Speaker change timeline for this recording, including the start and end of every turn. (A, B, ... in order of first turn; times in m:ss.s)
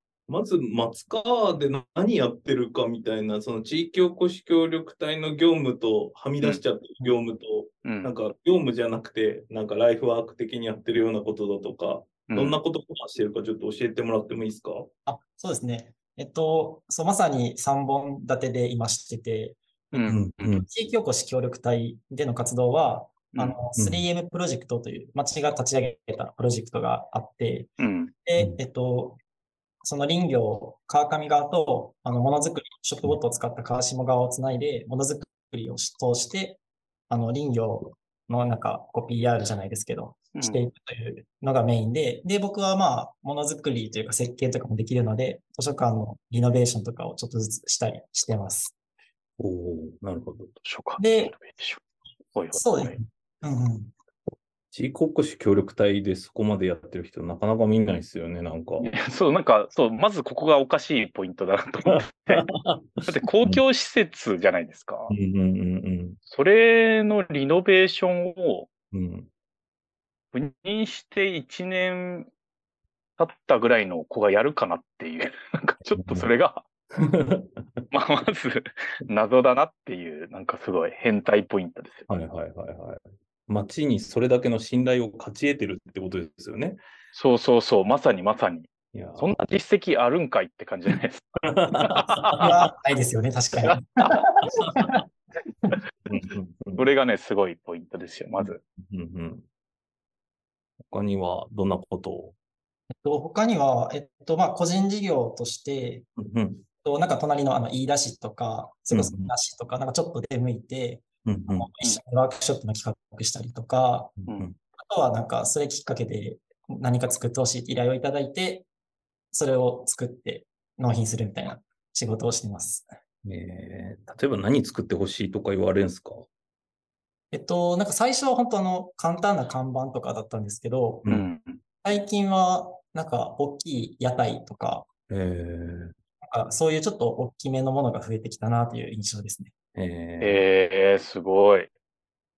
0:00.3-0:14.9 A
0:07.8-0:08.1 B
0:12.3-0:12.6 B
0:15.1-0:27.7 C
0:19.9-0:20.6 B
0:20.1-0:20.7 A
0:23.3-0:23.6 B
0:23.8-0:24.0 A
0:27.8-0:28.1 B
0:28.2-0:29.2 C
0:29.8-0:48.7 C
0:40.4-0:40.6 B
0:49.4-0:50.5 A
0:50.6-0:51.8 B
0:51.0-0:51.4 C
0:52.3-0:53.0 B
0:52.5-0:53.9 C
0:54.7-0:58.9 A
0:58.8-1:02.5 B
1:01.9-1:03.6 A
1:03.0-1:05.1 B
1:05.1-1:06.2 A
1:06.3-1:08.7 B
1:08.9-1:09.3 A
1:10.3-1:12.3 B
1:13.2-1:16.6 B
1:15.9-1:16.3 A
1:17.0-1:17.7 A
1:17.9-1:22.1 B
1:22.1-1:26.8 A
1:27.1-1:32.5 B
1:28.9-1:29.4 A
1:31.4-1:32.4 A
1:32.4-1:35.0 C
1:33.7-1:34.1 B
1:34.5-1:35.0 A
1:36.1-1:36.9 A
1:36.8-1:38.6 B
1:38.4-1:39.5 A
1:40.9-1:42.4 A
1:43.0-1:46.1 C
1:46.2-1:46.6 A
1:46.8-1:54.2 C
1:48.9-1:49.3 A
1:51.2-1:51.7 A
1:54.2-1:54.6 A
1:54.8-1:58.7 C
1:59.3-2:02.9 C
2:03.2-2:06.3 A
2:07.3-2:11.1 C
2:11.0-2:11.3 A
2:11.1-2:11.6 B
2:11.8-2:14.9 C
2:15.1-2:16.0 A
2:16.2-2:19.5 C
2:19.8-2:20.4 A
2:20.2-2:21.7 B